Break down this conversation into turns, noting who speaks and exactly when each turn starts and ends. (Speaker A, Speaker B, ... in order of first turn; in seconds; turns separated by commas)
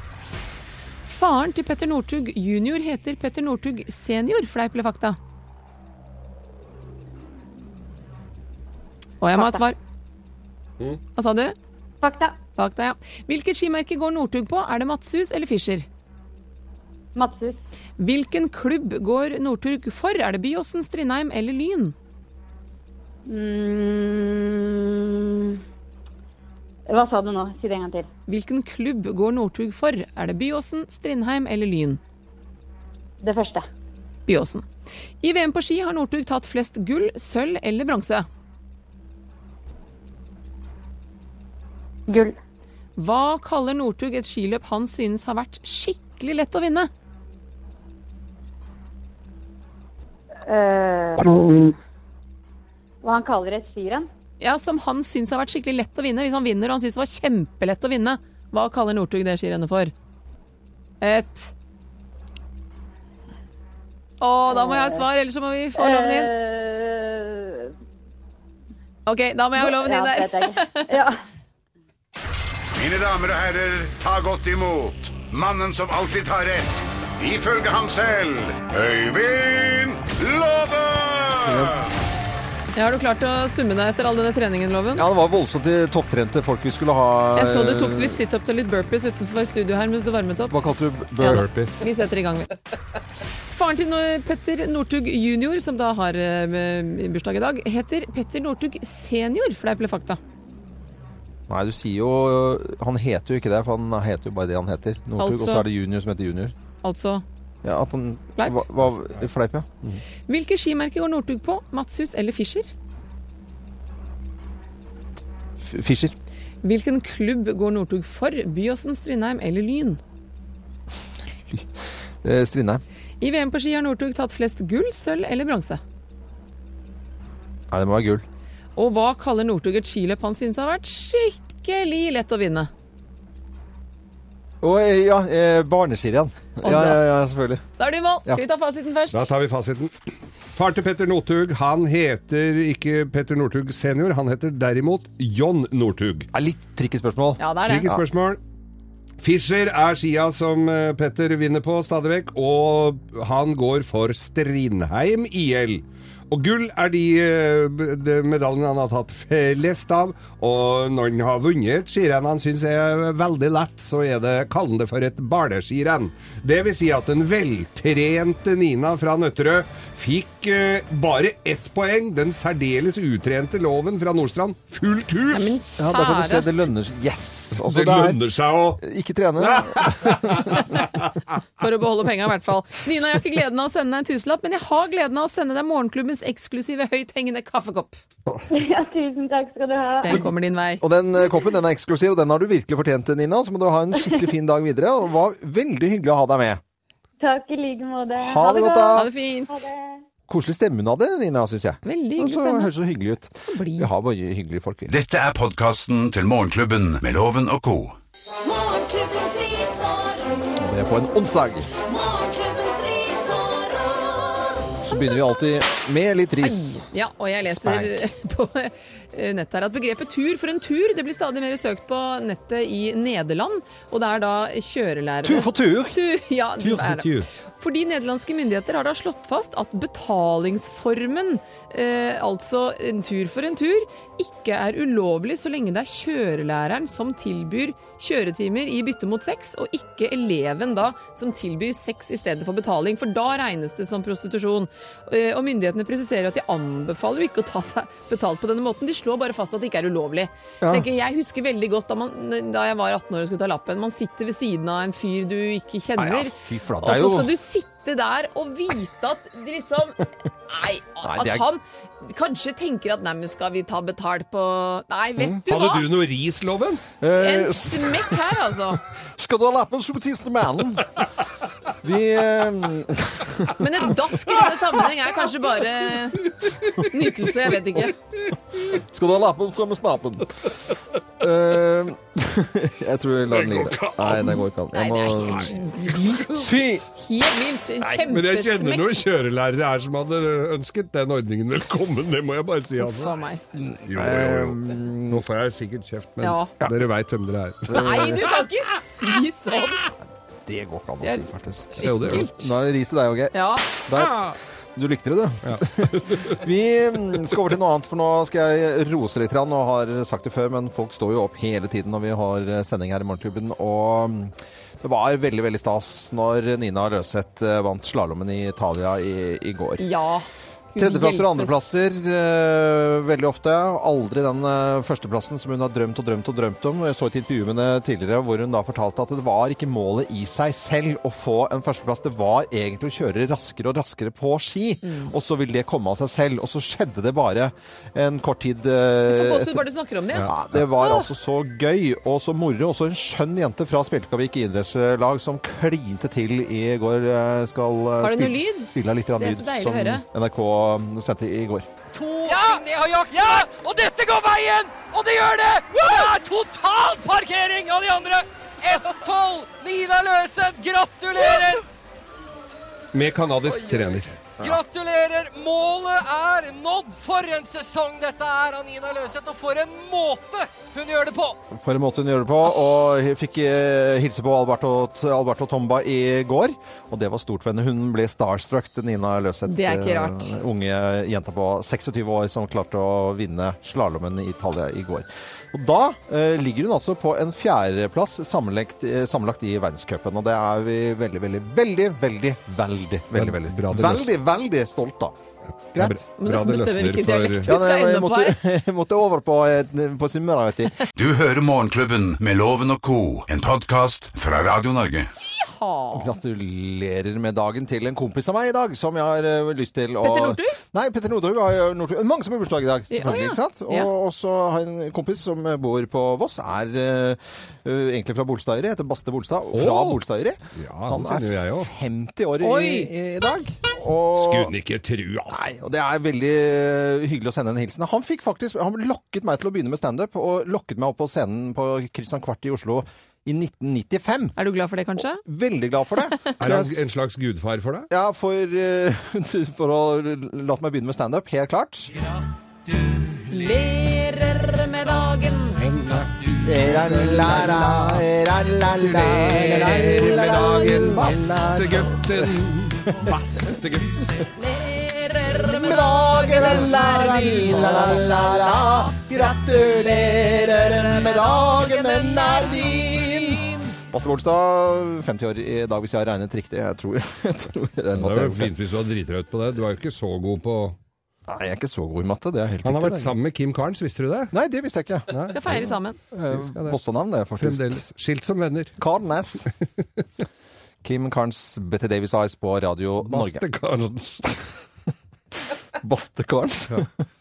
Speaker A: 1.1-5.2, Speaker A: 9.2-9.8, Speaker A: 11.2-11.5, Speaker B: 12.0-12.3, Speaker A: 12.6-15.8, Speaker B: 17.1-17.6, Speaker A: 18.0-21.9, Speaker B: 23.3-25.6, Speaker B: 26.9-28.1, Speaker A: 28.3-32.0, Speaker B: 33.2-33.6, Speaker A: 34.3-34.6, Speaker A: 35.2-38.3, Speaker B: 42.1-42.4, Speaker A: 43.0-46.9, Speaker B: 50.5-51.6, Speaker B: 53.0-54.1, Speaker A: 54.4-59.9, Speaker A: 61.0-61.5, Speaker A: 64.2-66.3, Speaker B: 64.5-65.1, Speaker B: 65.7-67.7, Speaker A: 69.0-71.0, Speaker B: 69.6-71.2, Speaker C: 72.7-81.8, Speaker D: 81.4-81.8, Speaker A: 82.7-85.0, Speaker D: 85.0-88.2, Speaker A: 87.3-90.5, Speaker D: 90.5-91.4, Speaker A: 91.2-92.5, Speaker E: 91.3-91.8, Speaker A: 93.5-100.2, Speaker D: 101.5-106.5, Speaker A: 105.2-105.7, Speaker A: 106.8-107.2, Speaker D: 107.6-110.0, Speaker A: 110.3-112.7, Speaker D: 115.6-116.1, Speaker A: 116.6-120.0, Speaker D: 122.2-122.8, Speaker A: 123.2-125.8, Speaker D: 127.7-128.2, Speaker A: 128.8-132.7, Speaker D: 134.6-137.6, Speaker A: 136.6-137.0, Speaker A: 137.8-139.3, Speaker E: 139.1-139.9, Speaker E: 140.5-146.3, Speaker D: 146.3-148.0, Speaker A: 147.4-147.9, Speaker E: 147.7-148.4, Speaker E: 149.2-175.6, Speaker A: 175.3-176.5, Speaker D: 175.8-178.2, Speaker E: 177.6-178.8, Speaker D: 178.8-180.8, Speaker E: 179.4-181.1, Speaker A: 181.6-188.0, Speaker B: 188.5-190.3, Speaker A: 190.0-190.8, Speaker D: 190.8-196.6, Speaker B: 197.2-200.0, Speaker D: 198.2-199.1, Speaker A: 198.9-199.5, Speaker D: 200.3-204.9, Speaker A: 201.8-202.7, Speaker A: 203.5-203.9, Speaker C: 204.9-208.0, Speaker F: 208.4-210.6, Speaker D: 210.6-211.7, Speaker F: 211.7-214.8, Speaker D: 214.8-216.8, Speaker A: 216.4-265.9, Speaker D: 217.5-218.1, Speaker D: 225.2-226.0, Speaker E: 226.6-227.3, Speaker D: 250.6-250.8, Speaker D: 256.0-257.3, Speaker D: 261.0-261.5, Speaker E: 265.5-266.8, Speaker D: 267.0-268.1, Speaker A: 267.1-268.8, Speaker D: 269.2-270.9, Speaker D: 271.8-273.6, Speaker A: 273.6-278.0, Speaker D: 278.7-280.5, Speaker D: 281.2-285.6, Speaker E: 283.3-284.4, Speaker A: 284.7-288.9, Speaker D: 286.4-286.8, Speaker E: 287.8-293.1, Speaker A: 292.8-293.4, Speaker D: 293.5-295.2, Speaker E: 293.9-298.3, Speaker A: 296.2-296.5, Speaker D: 297.7-298.2, Speaker A: 297.7-299.9, Speaker D: 300.4-319.9, Speaker A: 301.0-302.5, Speaker E: 301.8-302.3, Speaker A: 303.3-303.7, Speaker E: 305.4-306.4, Speaker A: 319.8-321.6, Speaker D: 320.8-339.6, Speaker A: 334.8-335.1, Speaker A: 339.1-341.1, Speaker D: 340.2-351.7, Speaker A: 348.0-350.0, Speaker G: 351.9-361.6, Speaker E: 362.9-364.1, Speaker G: 364.4-371.4, Speaker D: 371.5-395.1, Speaker A: 379.4-380.4, Speaker E: 393.1-394.1, Speaker E: 395.7-397.6, Speaker A: 396.2-398.4, Speaker D: 397.5-400.8, Speaker C: 400.9-405.1, Speaker A: 405.2-406.1, Speaker D: 405.9-424.5, Speaker A: 410.0-410.6, Speaker A: 412.9-413.9, Speaker E: 419.5-420.0, Speaker E: 420.5-421.7, Speaker A: 422.4-422.9, Speaker E: 424.1-425.5, Speaker D: 425.3-434.4, Speaker A: 434.4-435.2, Speaker D: 435.2-436.8, Speaker E: 436.4-437.9, Speaker D: 437.9-441.9, Speaker A: 443.3-445.6, Speaker E: 445.6-448.0, Speaker D: 446.4-453.1, Speaker E: 448.8-454.2, Speaker A: 449.4-451.3, Speaker A: 454.3-459.3, Speaker D: 455.2-468.5, Speaker A: 460.0-463.7, Speaker E: 467.9-470.8, Speaker D: 471.3-473.1, Speaker E: 472.6-474.3, Speaker D: 474.3-477.8, Speaker E: 475.1-475.4, Speaker A: 475.3-476.0, Speaker E: 476.3-476.8, Speaker E: 477.4-478.7, Speaker D: 478.8-479.5, Speaker D: 480.8-483.4, Speaker E: 483.0-484.3, Speaker D: 485.8-486.9